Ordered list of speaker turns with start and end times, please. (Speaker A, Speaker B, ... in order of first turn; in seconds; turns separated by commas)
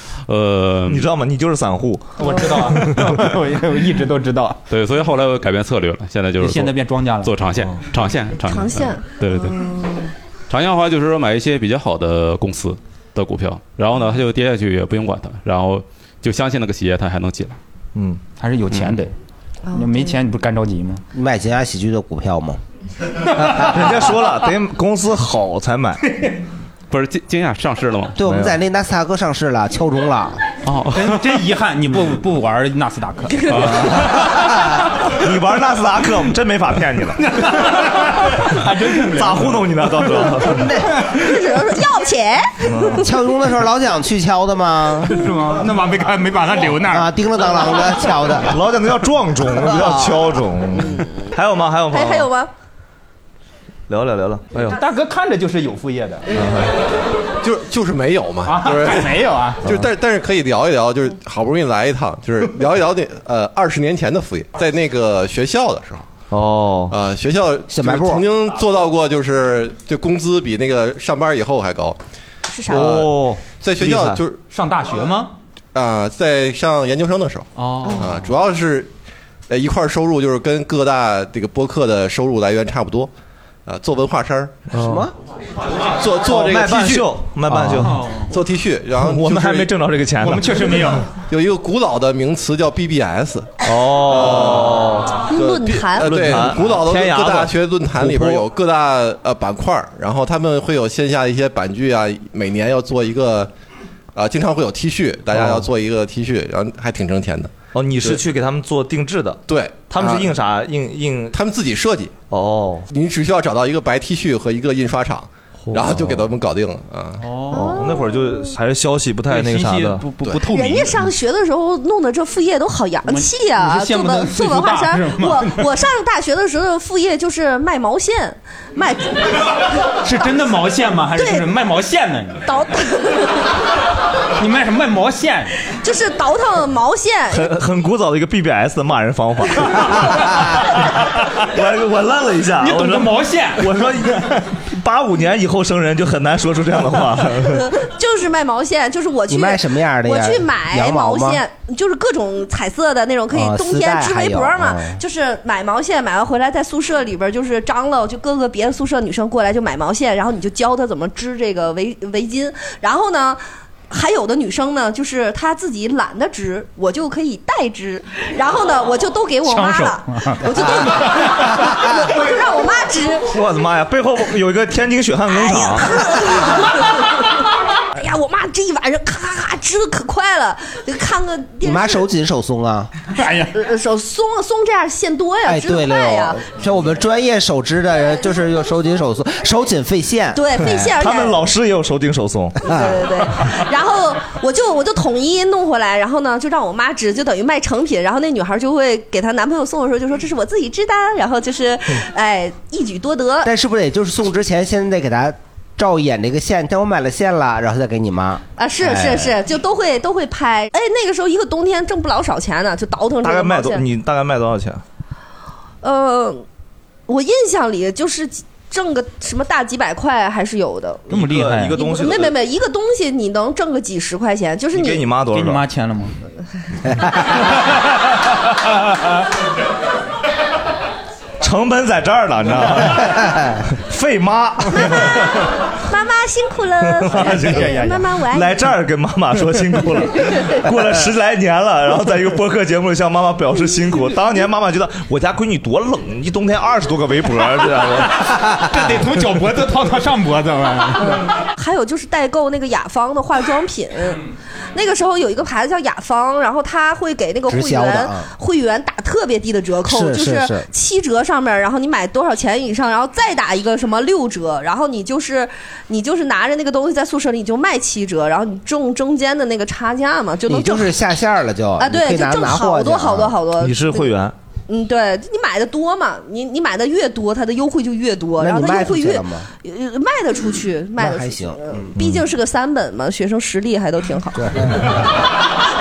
Speaker A: 0.3-1.1, Speaker B: 0.9-3.3, Speaker C: 2.2-4.6, Speaker A: 4.7-9.7, Speaker C: 6.4-7.3, Speaker D: 8.5-10.1, Speaker A: 10.5-17.6, Speaker B: 17.9-18.2, Speaker C: 18.4-19.1, Speaker A: 18.7-19.0, Speaker C: 19.7-21.0, Speaker E: 21.1-22.6, Speaker B: 23.3-26.0, Speaker A: 26.9-28.2, Speaker E: 28.2-30.4, Speaker B: 28.2-28.6, Speaker C: 30.7-34.2, Speaker A: 33.4-34.4, Speaker B: 35.1-37.2, Speaker C: 37.2-39.8, Speaker B: 39.0-40.7, Speaker D: 41.1-43.0, Speaker B: 42.6-43.0, Speaker E: 43.0-45.3, Speaker C: 45.1-47.1, Speaker E: 46.8-48.5, Speaker B: 48.4-52.3, Speaker E: 49.7-50.2, Speaker D: 51.9-52.5, Speaker B: 53.9-54.8, Speaker C: 54.7-56.4, Speaker B: 56.3-56.8, Speaker F: 57.4-66.1, Speaker C: 58.5-59.6, Speaker B: 66.3-67.0, Speaker F: 66.9-72.0, Speaker E: 67.7-68.2, Speaker B: 72.6-74.2, Speaker F: 72.7-74.4, Speaker C: 74.5-75.3, Speaker F: 75.7-78.9, Speaker C: 77.6-78.2, Speaker F: 79.5-83.1, Speaker F: 83.7-84.7, Speaker B: 84.7-85.1, Speaker E: 84.8-85.1, Speaker F: 86.0-87.1, Speaker B: 86.2-88.0, Speaker C: 86.6-87.0, Speaker C: 87.6-88.3, Speaker F: 88.2-89.7, Speaker B: 89.0-90.8, Speaker C: 90.2-91.1, Speaker F: 91.2-103.5, Speaker B: 93.6-95.2, Speaker D: 95.3-96.2, Speaker B: 95.9-98.5, Speaker F: 104.2-108.2, Speaker B: 105.3-105.7, Speaker B: 107.7-111.4, Speaker F: 109.5-110.3, Speaker F: 111.3-112.2, Speaker B: 112.3-112.9, Speaker F: 112.9-117.3, Speaker B: 115.7-116.3, Speaker C: 117.2-117.8, Speaker B: 117.5-120.1, Speaker D: 117.5-118.1, Speaker C: 119.3-121.0, Speaker D: 120.4-129.5, Speaker C: 123.0-125.7, Speaker C: 130.0-132.4, Speaker D: 131.2-131.5, Speaker D: 132.4-133.5, Speaker C: 134.4-135.6, Speaker D: 135.8-137.5, Speaker B: 137.3-140.3, Speaker B: 141.4-147.7, Speaker C: 142.6-143.8, Speaker D: 147.5-173.3, Speaker E: 149.3-151.4, Speaker E: 153.3-155.0, Speaker C: 169.5-171.5, Speaker B: 173.3-176.1, Speaker D: 175.3-177.2, Speaker D: 177.9-182.1, Speaker E: 181.6-182.9, Speaker C: 183.1-183.5, Speaker D: 183.5-186.4, Speaker E: 185.4-190.7, Speaker D: 190.3-191.4, Speaker B: 190.6-192.7, Speaker E: 192.7-193.0, Speaker D: 192.7-203.5, Speaker E: 203.4-208.4, Speaker D: 208.6-213.8, Speaker B: 213.2-214.8, Speaker D: 215.8-216.4, Speaker D: 217.1-221.1, Speaker C: 221.1-221.8, Speaker B: 221.1-222.4, Speaker D: 221.7-225.1, Speaker B: 224.7-225.7, Speaker C: 225.3-226.2, Speaker B: 231.4-235.2, Speaker D: 234.8-235.1, Speaker D: 235.9-238.6, Speaker B: 236.8-248.7, Speaker C: 237.1-238.0, Speaker C: 248.7-251.3, Speaker D: 251.1-271.0, Speaker E: 257.5-258.3, Speaker E: 259.8-260.7, Speaker E: 270.5-273.4, Speaker D: 271.8-274.2, Speaker B: 273.6-274.4, Speaker D: 274.7-284.6, Speaker E: 278.4-279.5, Speaker E: 281.0-281.9, Speaker B: 282.0-282.3, Speaker E: 284.4-285.0